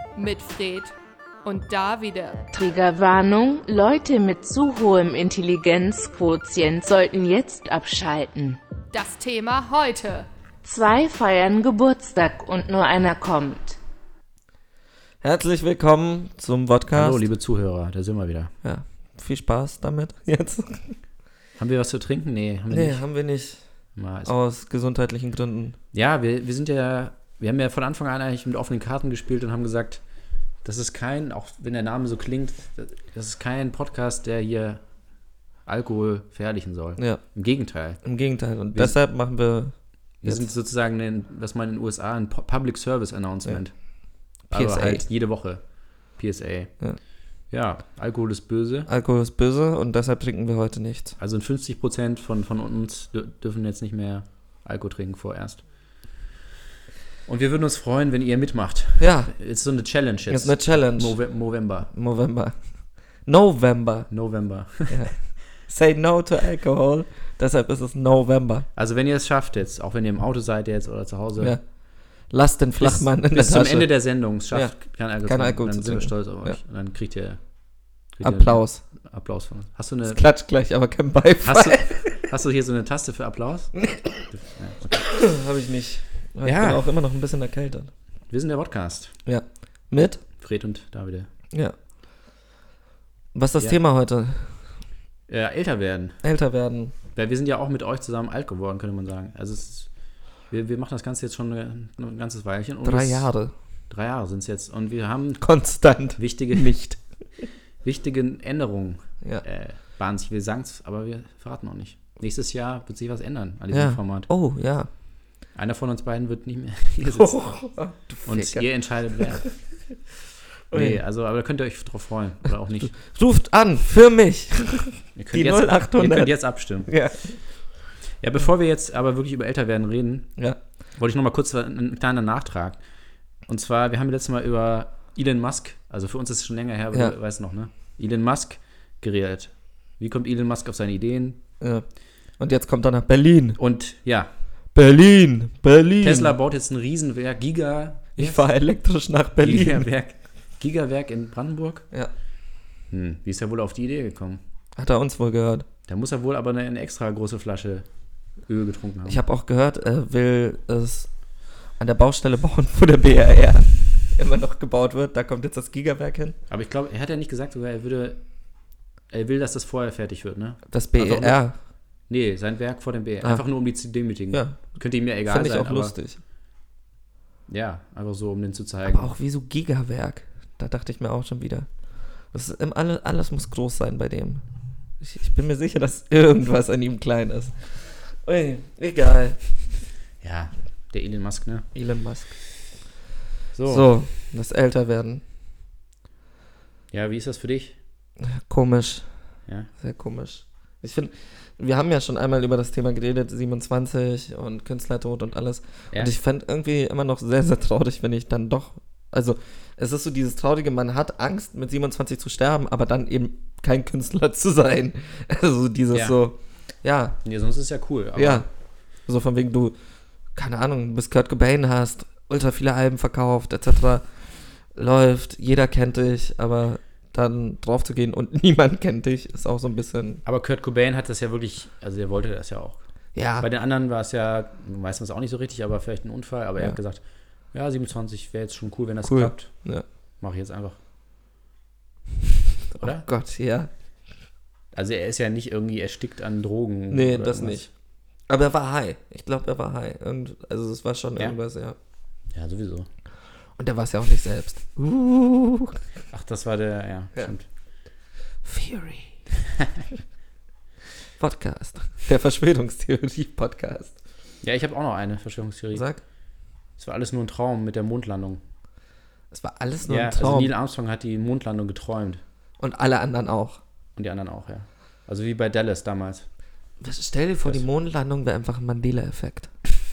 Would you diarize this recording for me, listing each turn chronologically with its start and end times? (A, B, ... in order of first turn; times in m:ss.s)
0:00.2-0:02.4 A
0:02.5-0:08.6 B
0:08.9-0:10.3 A
0:10.6-0:13.8 B
0:15.2-0:17.3 C
0:16.9-0:18.5 D
0:18.6-0:21.0 C
0:21.6-0:23.0 D
0:22.7-0:23.6 C
0:24.0-0:24.3 D
0:24.2-0:25.8 C
0:25.9-0:30.0 D
0:30.6-0:34.8 D
0:35.6-0:38.0 D
0:38.0-0:40.5 C
0:40.2-0:43.7 D
0:44.5-0:45.0 C
0:44.5-0:45.6 D
0:46.2-0:46.7 D
0:47.5-0:48.9 D
0:48.9-0:51.2 C
0:51.2-0:55.6 D
0:57.2-1:01.9 D
0:59.0-0:59.3 C
1:00.3-1:01.2 C
1:01.9-1:02.6 C
1:03.2-1:04.1 C
1:04.1-1:05.0 D
1:04.9-1:08.6 C
1:08.8-1:11.6 D
1:12.3-1:13.9 C
1:12.8-1:17.4 D
1:14.5-1:16.6 C
1:18.1-1:20.2 D
1:18.2-1:18.8 C
1:20.1-1:22.2 C
1:21.4-1:23.8 D
1:23.8-1:24.2 C
1:24.3-1:25.1 D
1:25.0-1:27.9 C
1:26.4-1:26.9 D
1:28.3-1:29.1 D
1:29.2-1:30.2 C
1:30.4-1:31.3 D
1:33.3-1:34.6 C
1:35.3-1:36.2 D
1:36.2-1:36.9 C
1:37.1-1:39.9 D
1:40.5-1:43.3 D
1:42.8-1:43.5 C
1:43.9-1:45.4 D
1:45.4-1:46.7 C
1:46.2-1:47.0 D
1:47.8-1:54.3 D
1:53.7-1:54.9 C
1:55.5-1:57.4 D
1:57.0-1:59.4 C
1:58.2-1:59.5 D
2:00.7-2:01.0 C
2:00.7-2:03.0 D
2:03.0-2:07.4 C
2:05.2-2:06.9 D
2:08.2-2:10.3 D
2:11.0-2:12.8 D
2:13.5-2:21.4 D
2:22.4-2:23.6 C
2:23.6-2:24.3 D
2:24.7-2:26.4 C
2:26.0-2:28.4 D
2:28.2-2:29.9 C
2:29.4-2:31.8 D
2:32.9-2:34.4 D
2:34.8-2:35.6 C
2:35.9-2:37.8 D
2:38.5-2:39.2 D
2:39.0-2:41.1 C
2:41.8-2:46.4 C
2:46.5-2:48.2 D
2:49.1-2:51.4 D
2:50.7-2:51.5 C
2:52.1-2:56.0 D
2:54.3-2:54.6 C
2:55.2-2:56.2 C
2:57.5-2:59.1 D
2:58.8-3:01.7 C
3:02.3-3:04.4 C
3:05.0-3:09.4 C
3:10.2-3:11.6 D
3:11.7-3:12.3 C
3:13.5-3:13.9 D
3:13.7-3:15.2 C
3:16.9-3:17.8 D
3:18.2-3:19.0 C
3:19.8-3:37.2 C
3:35.9-3:36.2 D
3:37.2-3:38.4 D
3:38.2-3:38.4 C
3:39.1-3:39.8 C
3:40.4-3:44.0 C
3:44.7-3:50.2 C
3:50.2-3:52.8 D
3:53.1-3:53.5 C
3:53.4-3:57.0 D
3:57.5-3:59.5 D
3:59.0-3:59.8 C
4:00.2-4:00.8 D
4:02.7-4:03.7 C
4:02.8-4:03.0 D
4:04.7-4:07.7 D
4:06.9-4:07.7 C
4:08.3-4:11.8 C
4:12.3-4:12.9 D
4:13.6-4:15.8 C
4:16.1-4:17.4 D
4:18.4-4:19.1 C
4:21.2-4:23.9 C
4:24.4-4:25.8 D
4:25.7-4:26.0 C
4:26.8-4:28.4 D
4:29.3-4:30.5 C
4:29.9-4:32.2 D
4:32.6-4:33.6 C
4:34.0-4:36.2 D
4:36.8-4:39.5 C